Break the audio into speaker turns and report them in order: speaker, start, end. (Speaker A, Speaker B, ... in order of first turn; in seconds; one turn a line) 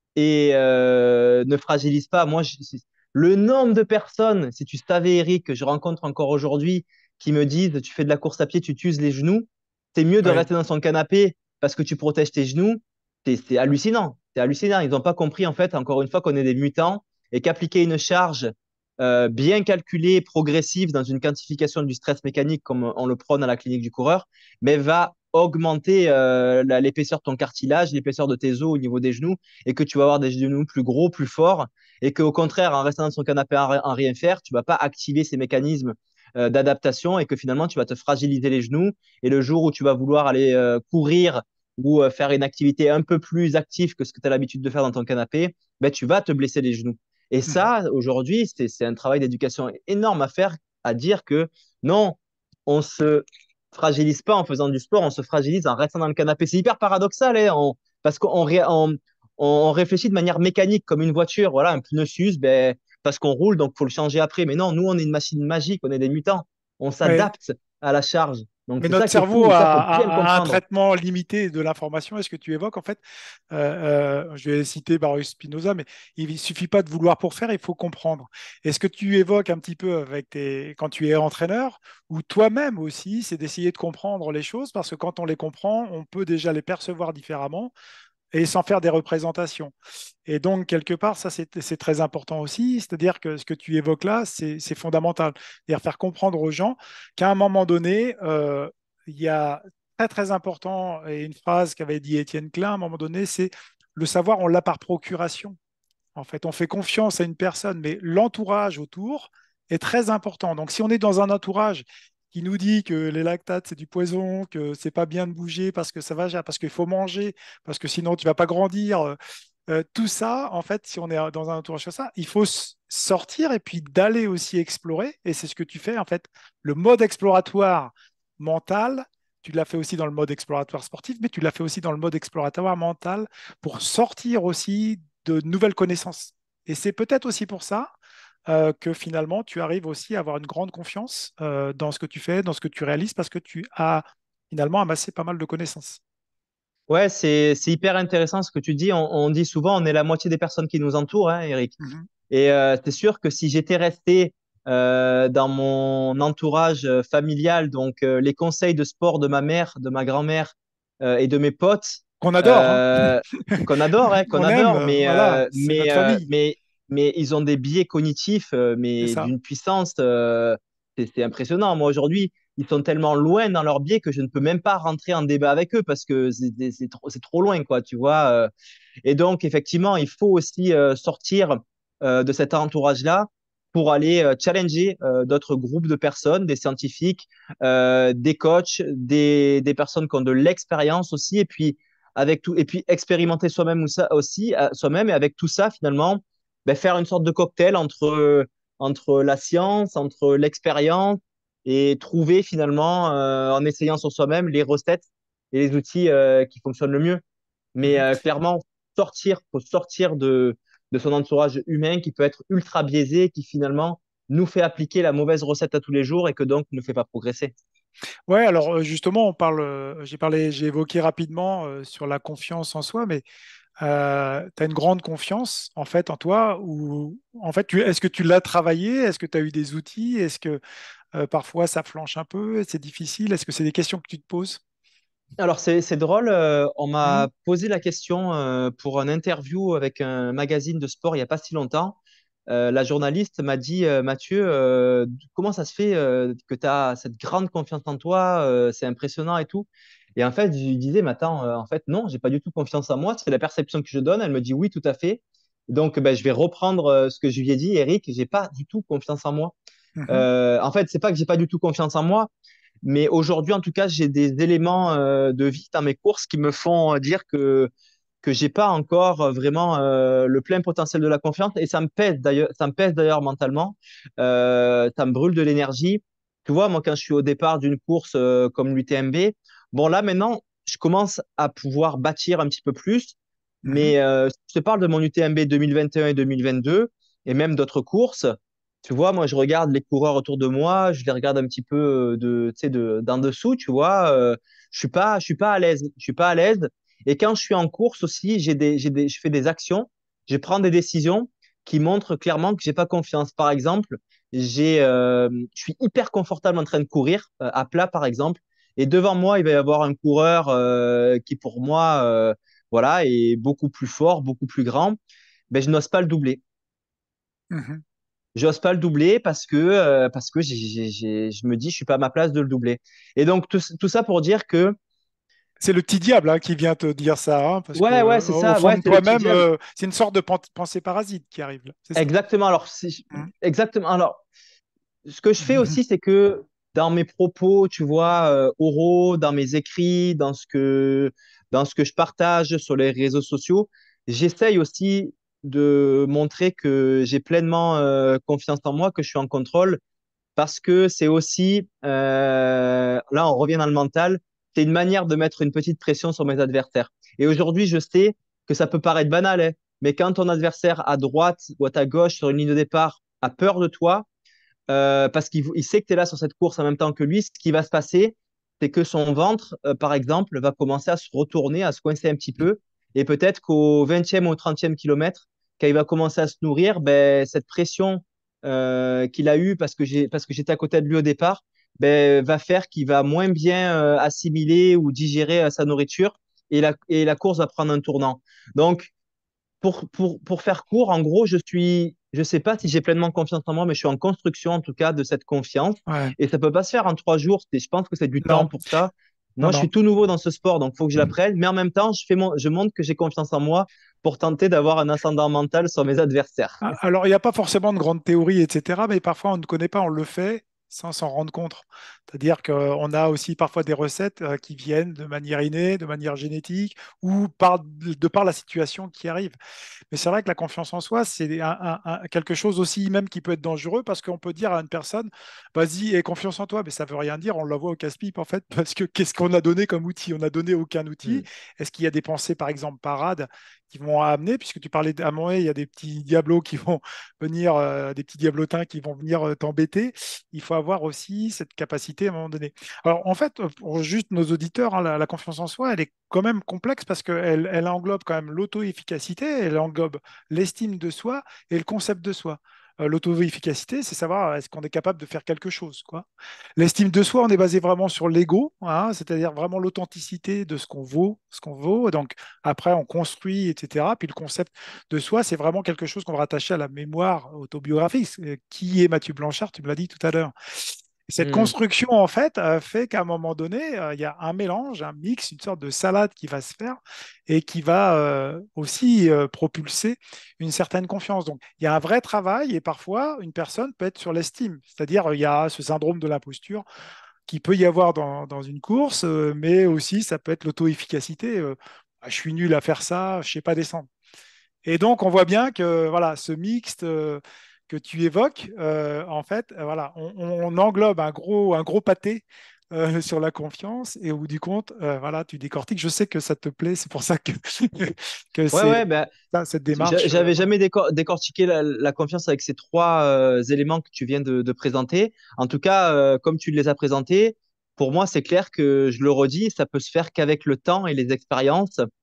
Speaker A: 0.2-70.6
Speaker B: 67.0-67.3
Speaker B: 68.8-73.0
Speaker B: 73.5-87.7
Speaker B: 88.3-89.7
Speaker B: 90.3-105.6
Speaker B: 106.2-119.2
Speaker B: 119.7-137.9
Speaker B: 138.5-146.0
Speaker A: 146.9-151.8
Speaker A: 152.3-178.5
Speaker B: 162.2-163.6
Speaker B: 164.3-166.2
Speaker B: 169.0-169.3
Speaker A: 179.0-207.2
Speaker A: 207.8-217.5
Speaker B: 207.9-208.1
Speaker B: 218.3-223.2
Speaker B: 223.8-230.6
Speaker B: 231.1-234.6
Speaker A: 235.4-259.6
Speaker B: 260.0-260.3
Speaker A: 260.1-262.3
Speaker A: 262.8-267.7
Speaker A: 268.2-288.3
Speaker B: 283.6-283.9
Speaker A: 288.8-315.0
Speaker A: 315.5-316.4
Speaker B: 317.5-317.8
Speaker A: 318.4-324.8
Speaker B: 325.6-332.1
Speaker A: 327.8-329.4
Speaker A: 332.0-334.2
Speaker A: 335.1-349.8
Speaker B: 335.4-335.8
Speaker A: 350.4-364.1
Speaker A: 364.7-388.9
Speaker A: 389.6-406.6
Speaker B: 395.9-396.1
Speaker B: 398.2-398.5
Speaker B: 399.4-399.7
Speaker B: 406.6-419.4
Speaker B: 419.9-456.1
Speaker B: 456.6-486.6
Speaker A: 471.2-471.5
Speaker B: 487.3-493.9
Speaker B: 494.6-510.5
Speaker A: 508.5-509.1
Speaker A: 509.7-521.8